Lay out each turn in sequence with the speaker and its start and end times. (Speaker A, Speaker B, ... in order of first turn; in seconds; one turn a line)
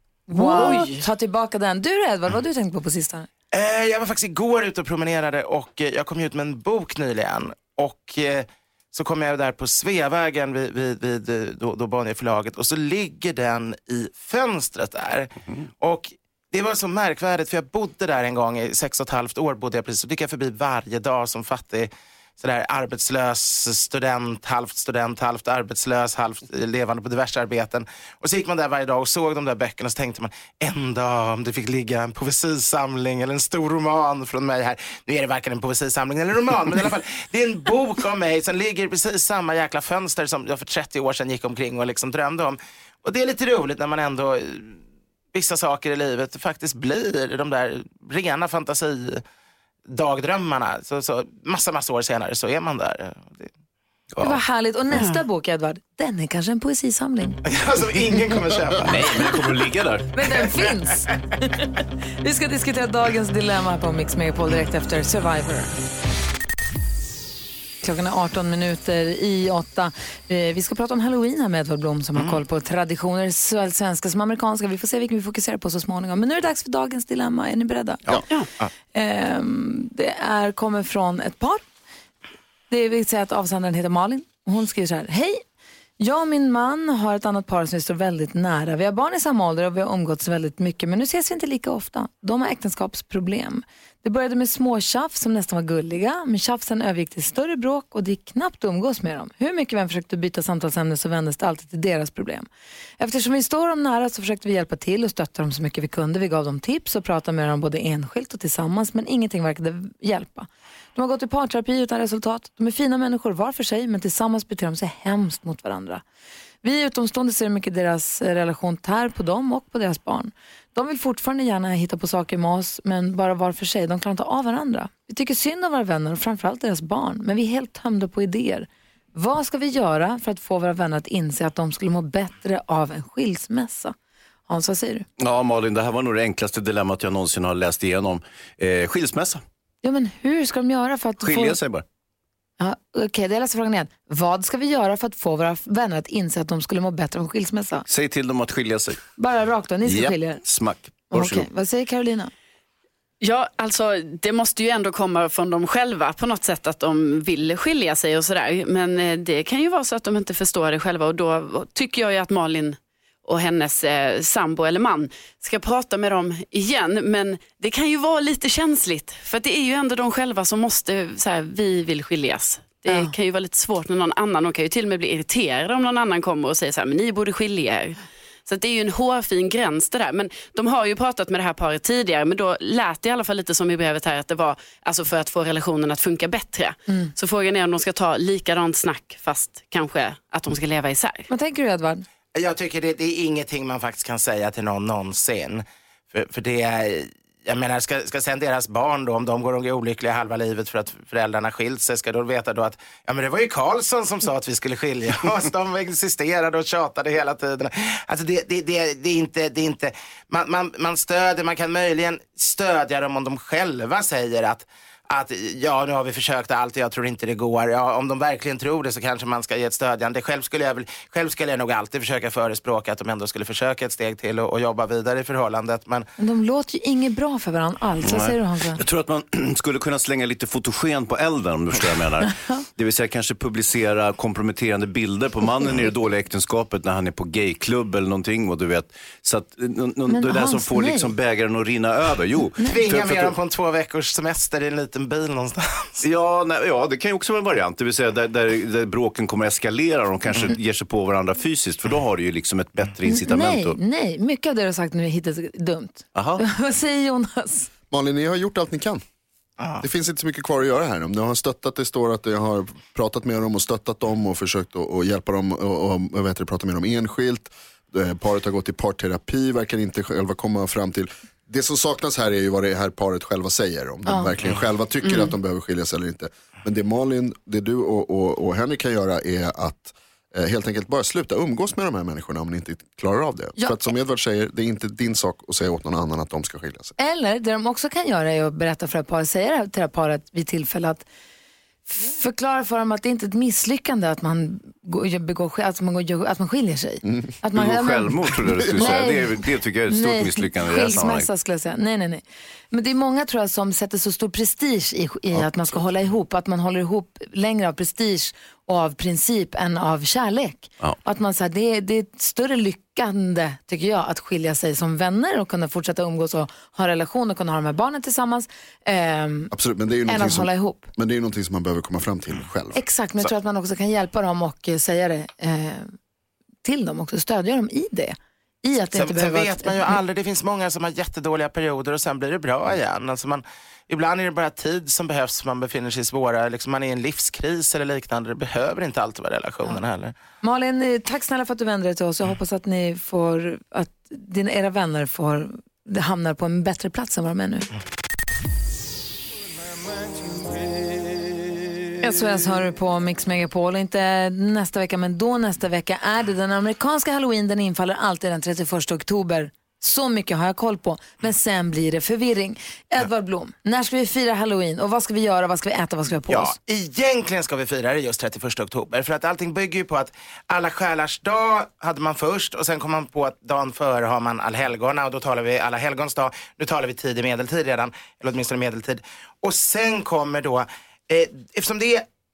Speaker A: 0.3-3.3
Speaker B: 0.3-1.1
Speaker C: 3.5-44.8
Speaker C: 45.3-49.2
Speaker C: 49.9-53.5
Speaker D: 54.1-54.4
Speaker A: 54.2-57.4
Speaker B: 54.9-55.2
Speaker C: 57.5-59.4
Speaker D: 58.8-60.1
Speaker A: 60.1-61.7
Speaker A: 62.2-65.7
Speaker A: 67.8-78.0
Speaker A: 78.9-81.7
Speaker A: 82.7-85.4
Speaker A: 86.0-102.5
Speaker A: 103.0-116.0
Speaker A: 116.6-133.9
Speaker A: 134.5-135.1
Speaker D: 135.2-139.4
Speaker A: 139.8-141.6
Speaker D: 141.2-141.8
Speaker A: 142.6-147.9
Speaker D: 147.9-149.0
Speaker A: 149.2-150.4
Speaker D: 149.8-151.5
Speaker A: 151.1-152.3
Speaker B: 153.2-191.3
Speaker A: 191.3-192.0
Speaker C: 192.4-226.1
Speaker A: 226.2-228.8
Speaker D: 228.0-243.3
Speaker A: 240.1-241.1
Speaker C: 242.7-246.0
Speaker D: 246.0-253.8
Speaker A: 253.1-257.7
Speaker D: 256.1-256.4
Speaker E: 257.9-259.0
Speaker C: 259.6-259.9
Speaker E: 259.8-286.9
Speaker A: 274.1-274.3
Speaker A: 287.0-291.1
Speaker A: 291.9-319.5
Speaker E: 297.1-297.4
Speaker D: 297.6-301.3
Speaker E: 298.6-298.9
Speaker E: 319.5-322.8
Speaker A: 320.1-320.9
Speaker A: 322.8-325.9
Speaker A: 326.6-329.8
Speaker C: 328.9-340.1
Speaker A: 340.4-347.7
Speaker A: 352.0-366.6
Speaker C: 366.3-382.1